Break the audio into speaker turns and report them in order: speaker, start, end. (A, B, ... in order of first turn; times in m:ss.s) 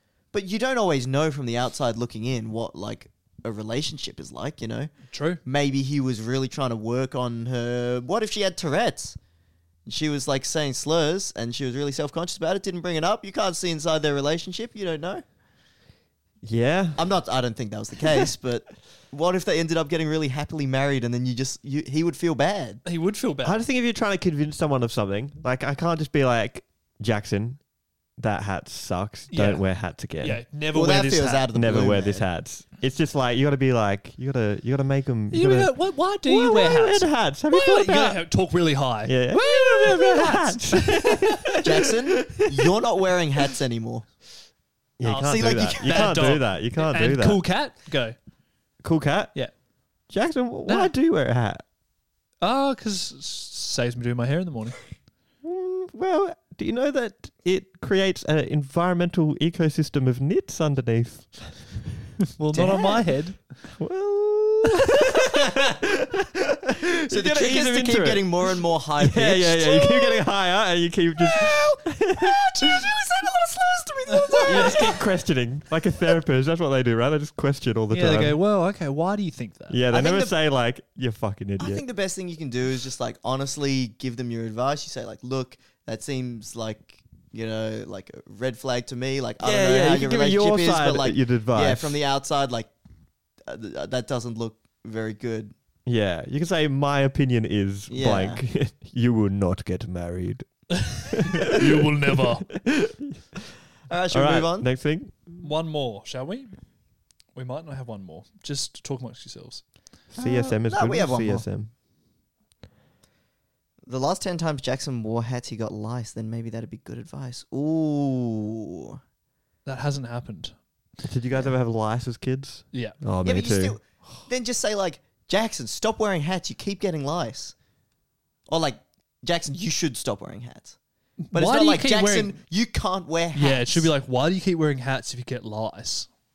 0:00.3-0:04.9 A
0:05.1-0:05.4 B
0:05.4-0:09.2 A
0:09.8-0:15.2 A
0:16.4-0:17.0 C
0:17.0-0:22.8 A
0:22.8-0:23.6 B
0:23.4-0:27.6 C
0:28.2-0:30.4 C
0:29.3-0:29.6 B
0:30.2-0:31.5 B
0:30.7-0:32.2 A
0:31.5-0:35.7 C
0:35.3-0:41.6 B
0:36.2-0:38.2 C
0:39.0-0:42.7 C
0:41.6-0:44.0 A
0:45.0-0:47.4 C
0:45.0-0:48.1 B
0:45.2-0:46.1 A
0:48.8-0:49.3 C
0:50.1-0:51.6 C
0:50.6-0:50.9 B
0:52.4-0:54.8 B
0:55.4-1:01.8 C
1:02.4-1:03.4 B
1:02.5-1:02.8 A
1:03.8-1:08.4 C
1:07.1-1:10.2 A
1:09.0-1:12.6 C
1:11.2-1:14.9 A
1:14.3-1:14.8 B
1:14.4-1:18.4 C
1:17.9-1:19.8 B
1:19.7-1:21.8 C
1:19.9-1:20.3 A
1:21.6-1:32.7 A
1:29.4-1:32.0 C
1:33.5-1:35.5 A
1:35.8-1:43.4 C
1:37.9-1:38.4 A
1:40.8-1:42.5 B
1:43.9-1:44.7 A
1:44.1-1:45.1 C
1:45.4-1:46.5 B
1:47.3-1:49.6 B
1:50.1-1:51.7 C
1:50.2-1:51.4 A
1:53.9-1:59.0 A
1:59.6-2:00.5 B
2:01.0-2:03.8 C
2:03.2-2:07.5 A
2:08.5-2:10.8 A
2:11.3-2:12.4 B
2:11.3-2:13.9 A
2:13.3-2:16.1 B